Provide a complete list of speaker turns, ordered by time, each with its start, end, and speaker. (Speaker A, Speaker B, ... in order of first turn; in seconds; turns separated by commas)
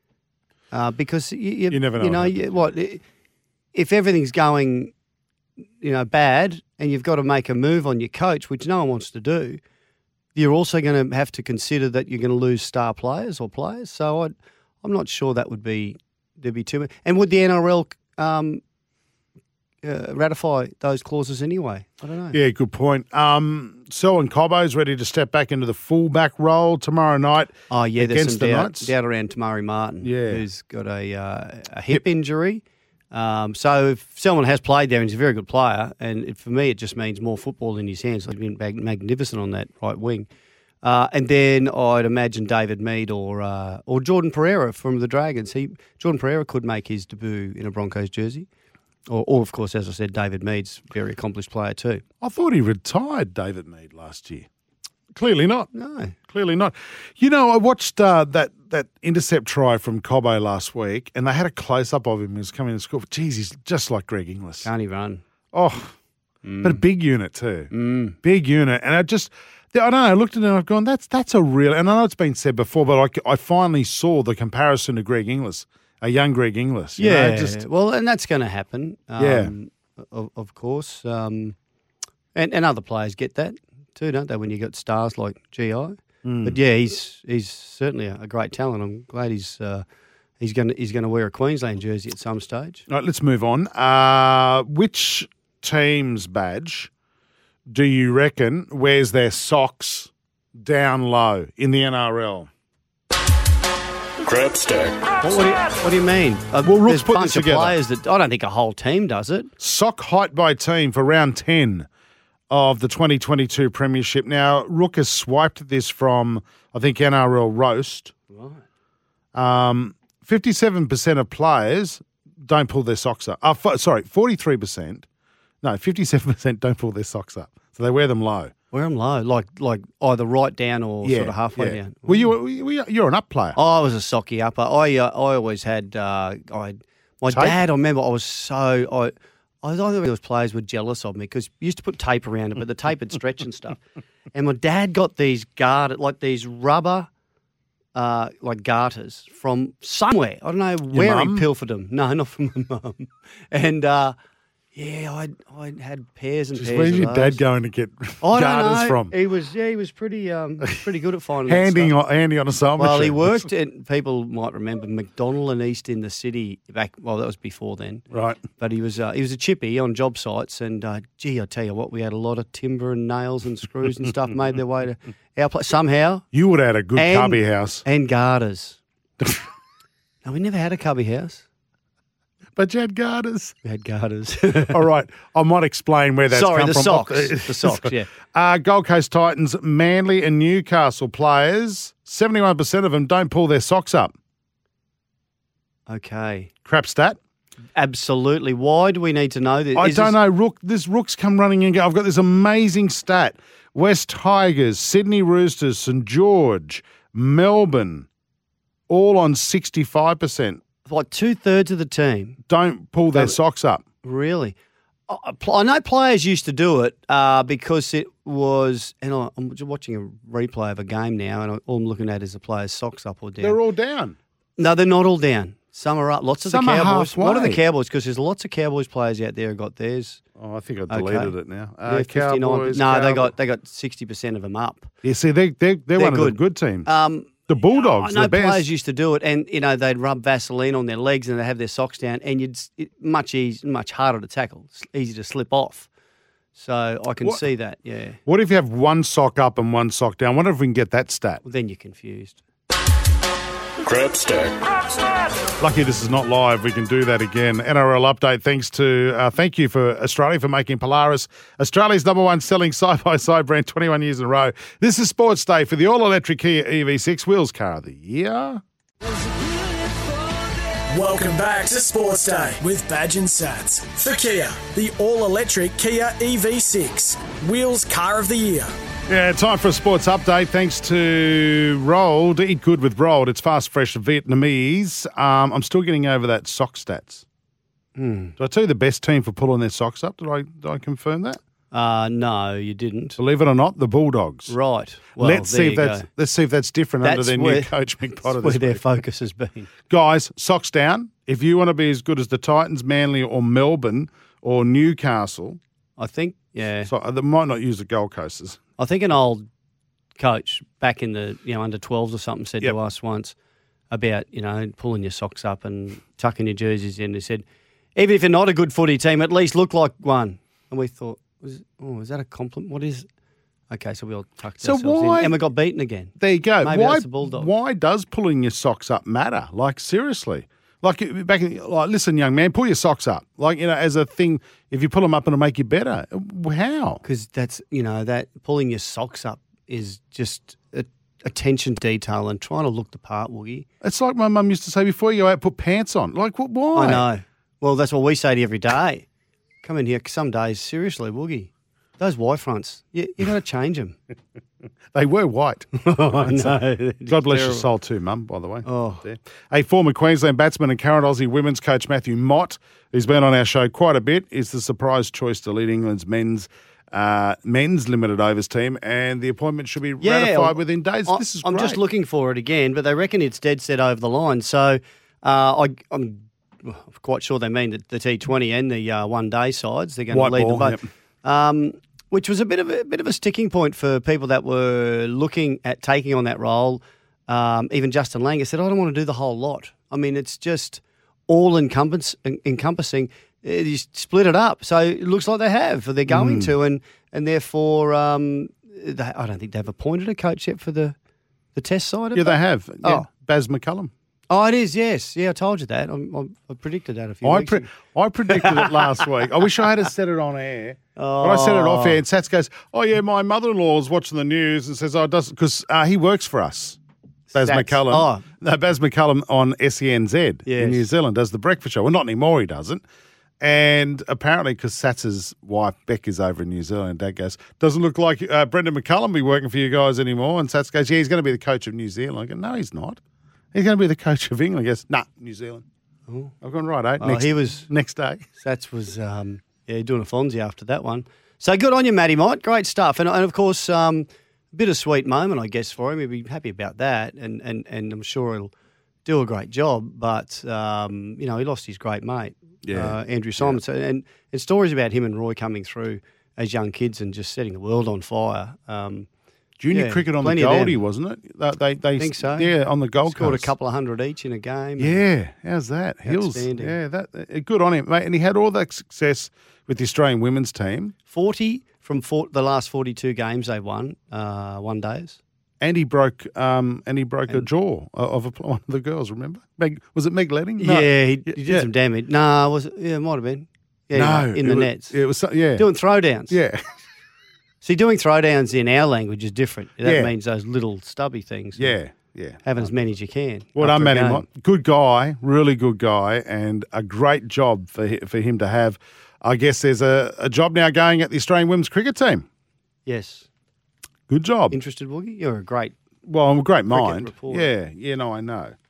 Speaker A: 0.7-3.0, Speaker B: 1.7-2.7, Speaker A: 3.7-4.9, Speaker A: 5.8-9.6, Speaker A: 10.3-18.6, Speaker A: 19.8-22.4, Speaker B: 22.3-28.9, Speaker A: 27.7-40.3, Speaker B: 30.0-30.4, Speaker A: 40.8-48.5, Speaker A: 49.1-52.0, Speaker B: 52.2-54.5, Speaker B: 55.1-55.7, Speaker A: 55.7-56.1, Speaker B: 56.3-64.7, Speaker A: 64.6-65.2, Speaker B: 65.5-65.9, Speaker A: 66.4-66.8, Speaker B: 66.6-67.7, Speaker A: 67.7-68.2, Speaker B: 68.2-77.6, Speaker A: 77.0-81.5, Speaker B: 79.2-79.5, Speaker A: 82.3-89.8, Speaker B: 86.2-86.6, Speaker A: 90.4-92.8, Speaker B: 92.9-96.9, Speaker B: 97.7-102.5, Speaker A: 105.2-109.5, Speaker B: 106.6-107.8, Speaker B: 109.6-111.9, Speaker B: 112.5-118.1, Speaker A: 118.3-118.6, Speaker B: 119.3-125.0, Speaker B: 125.6-128.5, Speaker A: 128.7-132.3, Speaker B: 131.0-133.6, Speaker A: 133.6-143.8, Speaker B: 137.3-137.6, Speaker A: 144.3-147.1, Speaker A: 147.9-154.1, Speaker B: 150.9-151.5, Speaker A: 154.7-157.4, Speaker B: 156.5-159.1, Speaker A: 158.2-161.9, Speaker B: 161.4-163.5, Speaker A: 162.8-168.0, Speaker B: 168.1-168.4, Speaker A: 168.6-176.2, Speaker B: 176.3-177.8, Speaker A: 176.9-178.8, Speaker A: 180.2-181.4, Speaker B: 182.6-183.5, Speaker A: 183.6-184.8, Speaker B: 184.7-194.1, Speaker A: 186.3-188.1, Speaker A: 195.9-196.5, Speaker B: 196.6-197.2, Speaker A: 197.7-200.2, Speaker B: 199.7-208.1, Speaker B: 208.9-210.6, Speaker A: 210.8-212.4, Speaker B: 212.5-213.8, Speaker A: 213.1-213.4, Speaker A: 214.0-214.5, Speaker A: 215.1-223.6, Speaker B: 223.4-224.2, Speaker A: 224.6-230.2, Speaker B: 226.4-227.6, Speaker B: 230.4-233.3, Speaker A: 230.9-231.3, Speaker A: 231.8-234.9, Speaker B: 235.0-236.9, Speaker A: 235.9-245.9, Speaker B: 237.5-238.7, Speaker A: 246.5-248.2, Speaker B: 248.2-251.4, Speaker A: 251.4-252.4, Speaker B: 255.6-268.6, Speaker C: 270.9-278.7, Speaker B: 279.1-287.2, Speaker A: 287.9-288.3, Speaker B: 288.4-291.4, Speaker A: 291.7-293.2, Speaker B: 293.2-294.5, Speaker A: 294.5-296.1, Speaker B: 295.2-298.8, Speaker A: 297.0-299.7, Speaker B: 299.9-305.6, Speaker A: 306.0-306.9, Speaker B: 306.8-308.6, Speaker A: 308.8-309.4, Speaker A: 310.2-313.3, Speaker A: 313.9-317.4, Speaker A: 317.9-323.1, Speaker A: 323.7-327.5, Speaker B: 324.6-325.4, Speaker B: 326.2-337.0, Speaker A: 337.0-343.6, Speaker B: 343.8-347.1, Speaker A: 346.7-349.1, Speaker A: 349.6-354.0, Speaker B: 354.9-371.8, Speaker A: 355.8-357.7, Speaker A: 358.6-359.0, Speaker A: 370.0-400.9, Speaker B: 380.1-380.8, Speaker B: 396.1-396.5, Speaker A: 401.6-403.1, Speaker B: 402.1-403.9, Speaker A: 404.3-407.7, Speaker B: 407.2-416.8, Speaker A: 408.3-409.6, Speaker A: 410.9-412.0, Speaker A: 417.3-418.2, Speaker B: 417.3-422.8, Speaker A: 420.4-420.9, Speaker B: 423.4-433.0, Speaker B: 433.5-435.6, Speaker A: 436.1-436.3, Speaker B: 436.4-438.2, Speaker A: 437.0-437.7, Speaker A: 438.4-448.5, Speaker A: 449.0-459.1, Speaker B: 452.6-453.6, Speaker B: 459.6-463.5, Speaker A: 459.7-460.8, Speaker A: 462.0-462.5, Speaker A: 463.1-465.0, Speaker B: 464.8-470.9, Speaker A: 466.1-466.7, Speaker A: 471.1-475.2, Speaker B: 475.6-481.7, Speaker A: 480.6-484.9, Speaker B: 483.9-485.7, Speaker A: 485.6-486.4, Speaker B: 486.3-486.6, Speaker A: 487.6-491.8, Speaker B: 489.8-490.1, Speaker B: 491.6-492.7, Speaker A: 492.4-494.2, Speaker B: 493.6-502.2, Speaker A: 502.9-503.3, Speaker B: 504.1-504.6, Speaker A: 504.5-505.7, Speaker B: 506.1-508.5, Speaker A: 506.7-507.5